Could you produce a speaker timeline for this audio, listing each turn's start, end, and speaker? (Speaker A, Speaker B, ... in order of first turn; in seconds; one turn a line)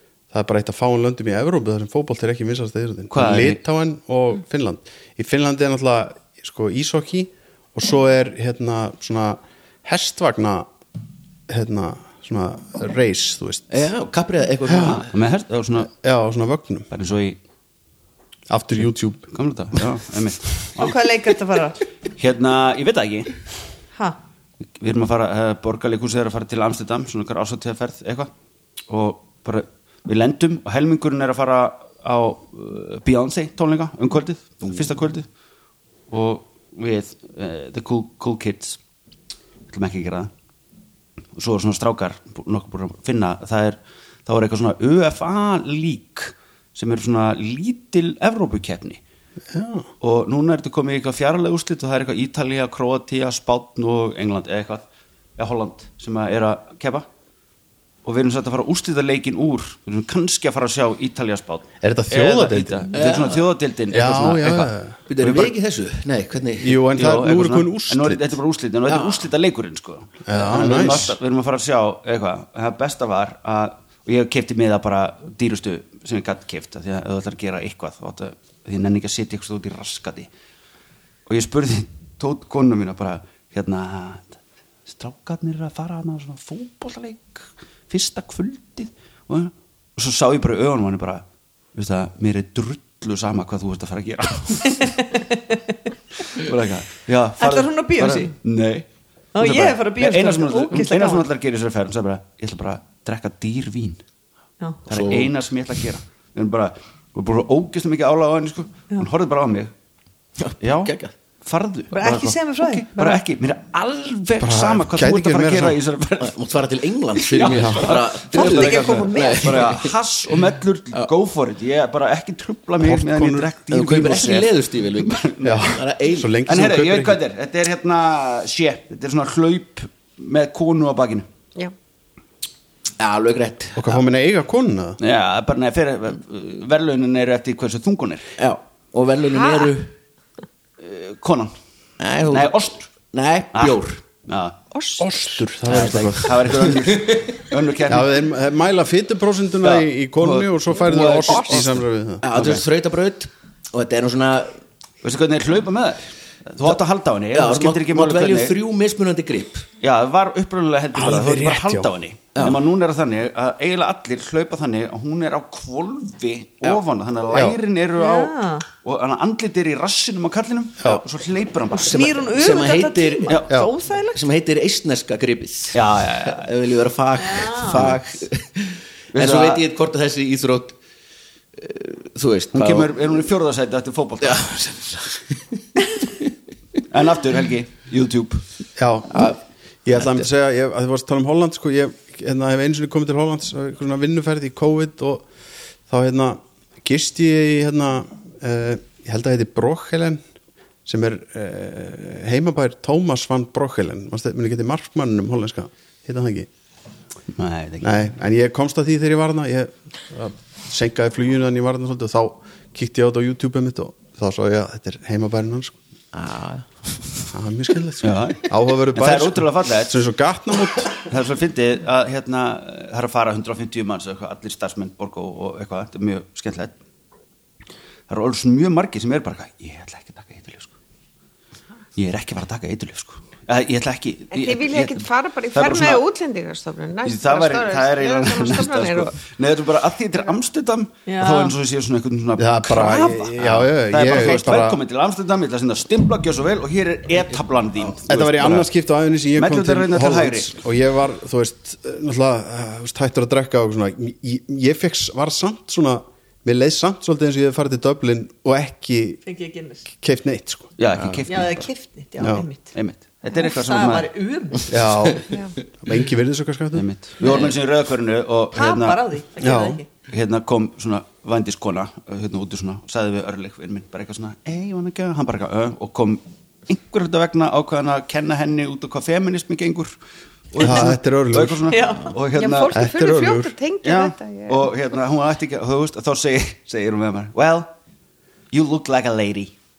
Speaker A: 0.3-10.7
Speaker B: 3.1-3.6
Speaker A: 11.5-13.9
Speaker C: 13.7-15.1
Speaker A: 14.7-15.0
Speaker B: 14.8-15.9
Speaker A: 15.9-16.9
Speaker B: 16.9-17.4
Speaker A: 18.5-19.3
Speaker B: 19.3-21.0
Speaker D: 20.8-21.8
Speaker B: 22.1-23.4
Speaker B: 24.8-28.3
Speaker B: 28.9-35.3
Speaker B: 36.1-38.8
Speaker B: 39.7-40.3
Speaker B: 41.4-49.0
Speaker A: 49.5-49.9
Speaker B: 50.0-54.8
Speaker B: 55.4-57.1
Speaker B: 58.0-64.7
Speaker A: 61.8-62.9
Speaker C: 62.9-63.5
Speaker A: 63.9-65.0
Speaker C: 65.1-66.8
Speaker B: 65.2-65.5
Speaker A: 66.6-68.4
Speaker B: 66.9-80.3
Speaker C: 68.9-69.2
Speaker A: 70.3-71.2
Speaker B: 81.3-91.2
Speaker B: 91.8-95.0
Speaker D: 95.2-95.6
Speaker B: 96.3-98.9
Speaker D: 97.4-98.3
Speaker D: 99.3-101.3
Speaker B: 99.4-104.0
Speaker D: 104.6-104.8
Speaker B: 104.9-109.7
Speaker C: 104.9-105.4
Speaker C: 110.4-111.1
Speaker B: 110.6-116.4
Speaker D: 111.9-113.2
Speaker A: 114.4-115.8
Speaker C: 116.2-120.0
Speaker B: 117.2-125.8
Speaker A: 117.5-117.9
Speaker D: 118.3-119.7
Speaker A: 122.8-123.5
Speaker C: 123.7-126.3
Speaker A: 125.4-127.2
Speaker B: 126.5-131.3
Speaker C: 133.0-133.9
Speaker A: 133.8-135.0
Speaker B: 135.0-138.3
Speaker C: 138.4-139.9
Speaker E: 139.3-139.7
Speaker B: 140.8-141.6
Speaker C: 142.0-144.0
Speaker B: 142.3-142.7
Speaker B: 143.6-144.6
Speaker E: 144.7-145.1
Speaker A: 145.0-146.9
Speaker B: 145.7-148.2
Speaker C: 145.7-147.4
Speaker A: 147.9-152.2
Speaker B: 149.6-152.6
Speaker C: 152.2-154.6
Speaker B: 155.0-158.6
Speaker C: 157.3-159.7
Speaker B: 159.8-172.3
Speaker A: 160.9-161.9
Speaker C: 162.3-162.6
Speaker A: 167.3-167.6
Speaker D: 168.0-168.7
Speaker D: 171.8-174.2
Speaker C: 172.3-173.4
Speaker C: 174.1-180.8
Speaker B: 175.7-176.5
Speaker D: 177.2-177.9
Speaker B: 179.1-179.6
Speaker C: 181.6-182.9
Speaker B: 182.5-184.5
Speaker C: 184.2-185.6
Speaker B: 186.9-188.4
Speaker A: 188.8-189.3
Speaker C: 189.1-189.4
Speaker A: 189.8-195.3
Speaker A: 195.9-200.2
Speaker A: 200.9-206.5
Speaker B: 207.3-208.0
Speaker A: 207.8-215.8
Speaker C: 216.1-217.2
Speaker A: 217.3-220.9
Speaker B: 218.0-220.0
Speaker B: 220.9-226.7
Speaker B: 228.1-230.7
Speaker B: 232.0-236.0
Speaker E: 234.3-239.1
Speaker B: 237.1-248.7
Speaker D: 241.1-241.5
Speaker A: 242.4-244.8
Speaker A: 248.1-259.2
Speaker B: 249.4-250.5
Speaker D: 259.2-259.9
Speaker A: 259.9-260.7
Speaker B: 260.8-261.7
Speaker C: 261.0-261.2
Speaker D: 261.3-262.7
Speaker A: 262.2-262.4
Speaker B: 262.3-264.1
Speaker D: 263.3-264.8
Speaker A: 264.7-265.3
Speaker A: 265.8-266.9
Speaker B: 266.7-269.0
Speaker D: 267.2-267.6
Speaker D: 268.5-269.9
Speaker A: 269.4-269.8
Speaker B: 270.1-279.9
Speaker B: 280.5-282.8
Speaker A: 280.6-281.8
Speaker D: 281.7-282.1
Speaker E: 282.4-284.7
Speaker A: 282.7-283.5
Speaker B: 283.8-287.7
Speaker B: 288.5-289.5